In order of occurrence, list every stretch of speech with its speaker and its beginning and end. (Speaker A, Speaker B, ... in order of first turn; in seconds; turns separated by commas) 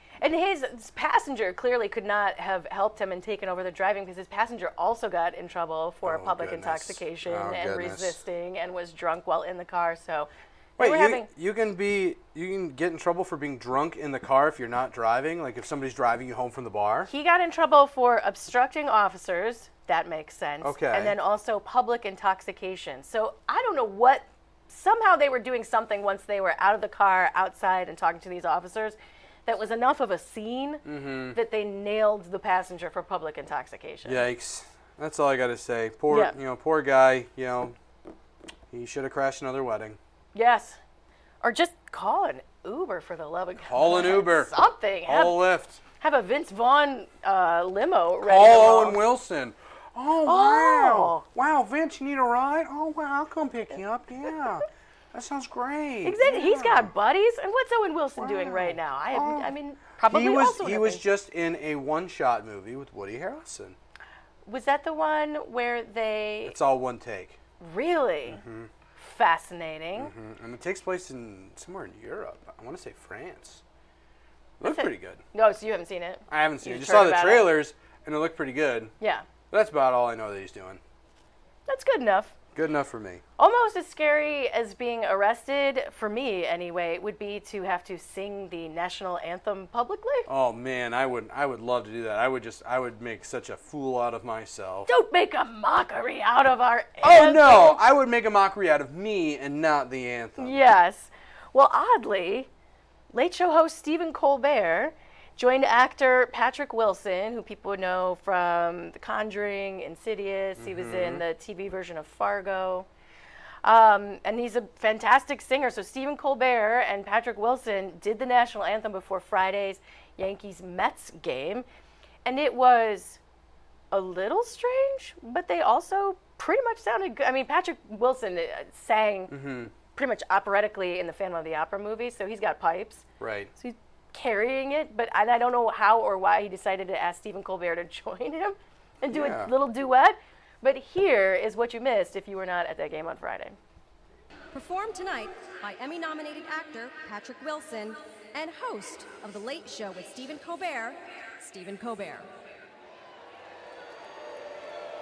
Speaker A: 0.2-11.3, Speaker B: 6.0-8.2, Speaker B: 10.8-17.1, Speaker A: 17.1-30.8, Speaker B: 20.6-21.1, Speaker B: 30.9-31.4, Speaker A: 31.3-34.2, Speaker B: 34.0-37.8, Speaker A: 36.1-36.3, Speaker B: 38.7-40.0, Speaker A: 40.3-40.8, Speaker A: 41.4-45.4, Speaker B: 43.6-44.5, Speaker B: 45.1-45.8, Speaker A: 46.0-49.0, Speaker B: 48.2-56.9, Speaker A: 50.3-51.2, Speaker A: 56.0-61.0, Speaker B: 58.2-59.5, Speaker B: 60.1-63.8, Speaker A: 64.5-66.6, Speaker B: 66.5-67.4, Speaker A: 67.6-68.4, Speaker B: 68.3-68.7, Speaker A: 69.0-70.1, Speaker B: 70.0-73.6, Speaker B: 74.6-75.2, Speaker A: 74.6-77.5, Speaker B: 76.3-78.9, Speaker A: 79.0-79.3, Speaker B: 79.5-80.8, Speaker A: 81.7-82.3, Speaker B: 82.5-83.2, Speaker A: 83.4-90.3, Speaker B: 90.3-94.9, Speaker A: 94.9-97.8, Speaker B: 97.0-100.6, Speaker A: 100.4-102.5, Speaker A: 103.1-112.9, Speaker B: 110.6-111.2, Speaker A: 113.6-121.7, Speaker A: 122.2-123.2, Speaker A: 123.9-129.3, Speaker B: 129.3-129.7, Speaker A: 129.9-143.6, Speaker B: 133.2-133.5, Speaker B: 139.1-139.5, Speaker C: 144.5-152.3